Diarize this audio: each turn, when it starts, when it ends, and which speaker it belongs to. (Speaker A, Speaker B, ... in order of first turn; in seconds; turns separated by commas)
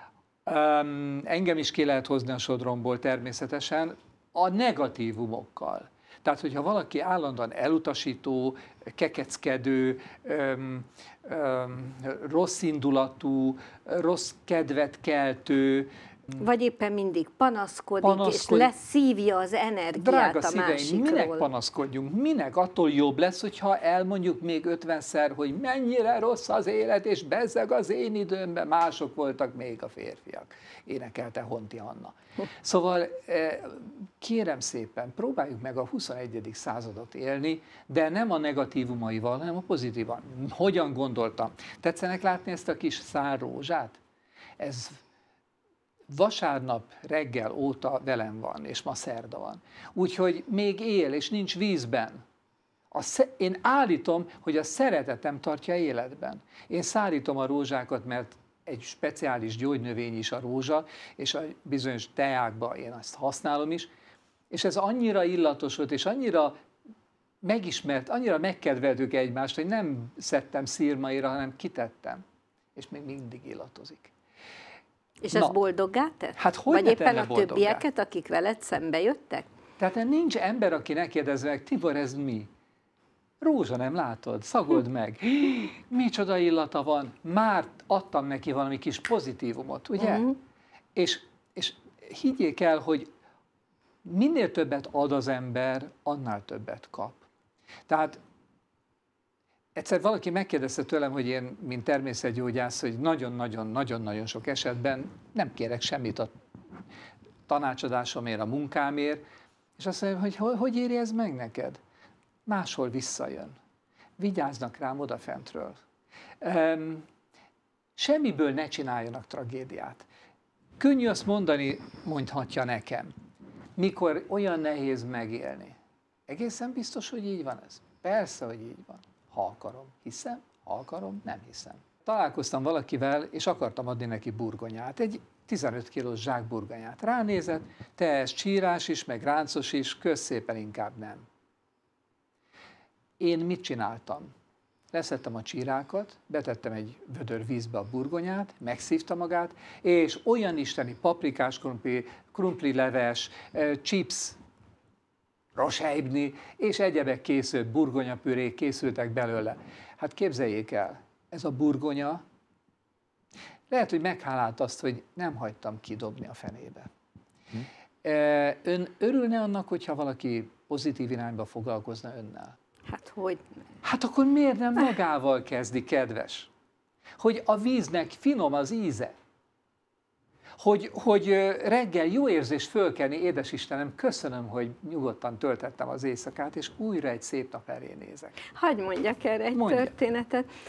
Speaker A: 0.5-15.9, Speaker B: 16.4-21.5, Speaker A: 18.0-18.7, Speaker A: 20.0-44.0, Speaker A: 44.6-45.0, Speaker A: 46.1-52.2, Speaker A: 52.9-63.9, Speaker A: 64.5-66.5, Speaker A: 67.4-72.2, Speaker A: 72.8-74.1, Speaker B: 75.2-79.5, Speaker A: 76.4-77.8, Speaker A: 79.8-82.5, Speaker A: 83.4-90.3, Speaker B: 90.0-90.3, Speaker A: 90.9-93.1, Speaker A: 94.0-97.3, Speaker A: 97.9-98.2, Speaker A: 99.8-106.3, Speaker A: 107.5-109.2, Speaker A: 109.8-111.8, Speaker A: 112.5-113.5, Speaker A: 114.2-115.8, Speaker A: 116.4-117.0, Speaker A: 118.0-120.1, Speaker A: 120.8-123.1, Speaker A: 123.8-125.7, Speaker A: 126.3-141.2, Speaker A: 143.2-144.3, Speaker A: 144.9-154.4, Speaker A: 155.6-162.2, Speaker A: 163.7-166.9, Speaker A: 168.0-172.5, Speaker B: 172.9-173.6, Speaker A: 173.8-176.5, Speaker A: 177.2-179.1, Speaker A: 180.6-188.4, Speaker B: 188.5-190.5, Speaker A: 189.5-189.9